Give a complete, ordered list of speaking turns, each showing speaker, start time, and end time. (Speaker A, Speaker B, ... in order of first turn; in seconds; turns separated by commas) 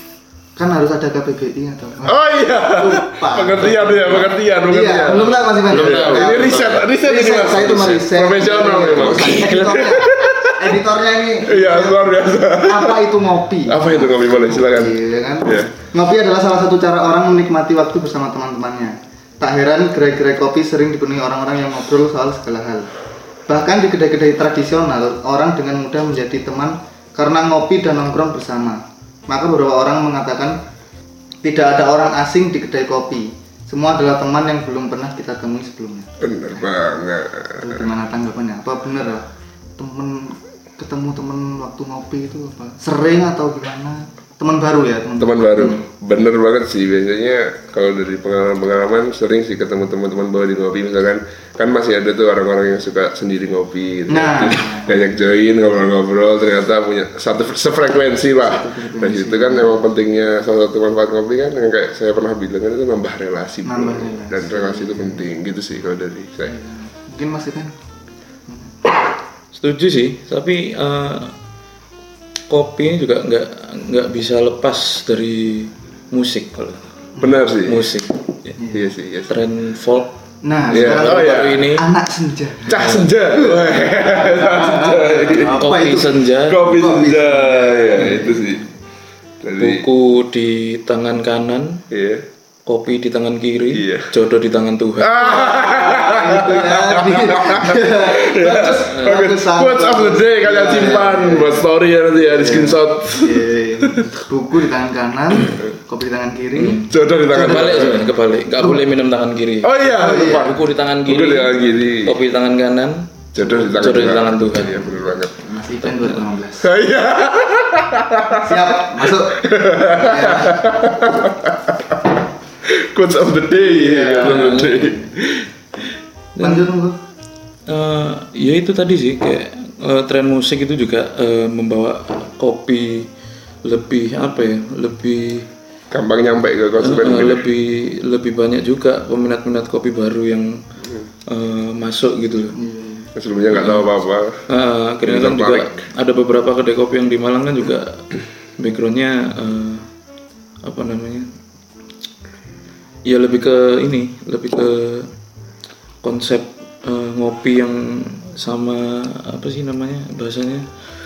Speaker A: 0.6-2.2, Speaker B: 2.0-10.8, Speaker A: 2.7-22.9, Speaker C: 5.7-6.8, Speaker C: 9.1-9.6, Speaker B: 11.4-13.1, Speaker B: 13.7-15.7, Speaker A: 23.5-30.6, Speaker A: 31.4-36.6, Speaker B: 36.2-37.9, Speaker A: 37.6-39.2, Speaker A: 39.8-45.8, Speaker B: 45.2-66.5, Speaker A: 54.1-55.0, Speaker A: 58.4-59.8, Speaker A: 63.6-65.3, Speaker A: 66.5-67.7, Speaker C: 69.5-71.3, Speaker C: 72.5-76.8, Speaker B: 77.2-77.9, Speaker C: 77.7-78.5, Speaker A: 78.6-78.9, Speaker B: 78.7-79.4, Speaker C: 79.3-80.1, Speaker A: 80.4-88.6, Speaker C: 80.7-81.8, Speaker B: 80.7-81.6, Speaker B: 82.7-85.6, Speaker C: 82.8-83.0, Speaker C: 85.4-86.7, Speaker B: 86.5-88.6, Speaker B: 89.4-89.8, Speaker C: 89.6-91.8, Speaker B: 91.9-92.2, Speaker C: 92.7-95.2, Speaker B: 93.7-94.1, Speaker B: 95.0-104.0, Speaker A: 95.2-101.6, Speaker C: 98.9-99.2, Speaker A: 102.2-108.0, Speaker C: 106.6-113.1, Speaker B: 106.9-108.1, Speaker B: 109.6-112.2, Speaker A: 110.0-110.5, Speaker B: 113.3-115.4, Speaker C: 113.7-115.0, Speaker A: 115.4-116.7, Speaker C: 115.9-116.2, Speaker B: 116.6-122.0, Speaker A: 118.4-120.7, Speaker B: 122.6-125.5, Speaker A: 123.6-124.6, Speaker C: 124.1-125.0, Speaker C: 126.4-126.7, Speaker A: 126.4-127.0, Speaker C: 127.7-133.1, Speaker C: 133.6-135.5, Speaker B: 135.9-137.5, Speaker C: 136.8-140.6, Speaker C: 141.3-142.6, Speaker A: 142.6-143.1, Speaker B: 143.2-144.4, Speaker C: 143.5-143.9, Speaker C: 144.5-148.0, Speaker B: 145.1-145.8, Speaker C: 148.6-149.9, Speaker C: 150.6-151.3, Speaker C: 153.1-155.1, Speaker C: 156.0-160.7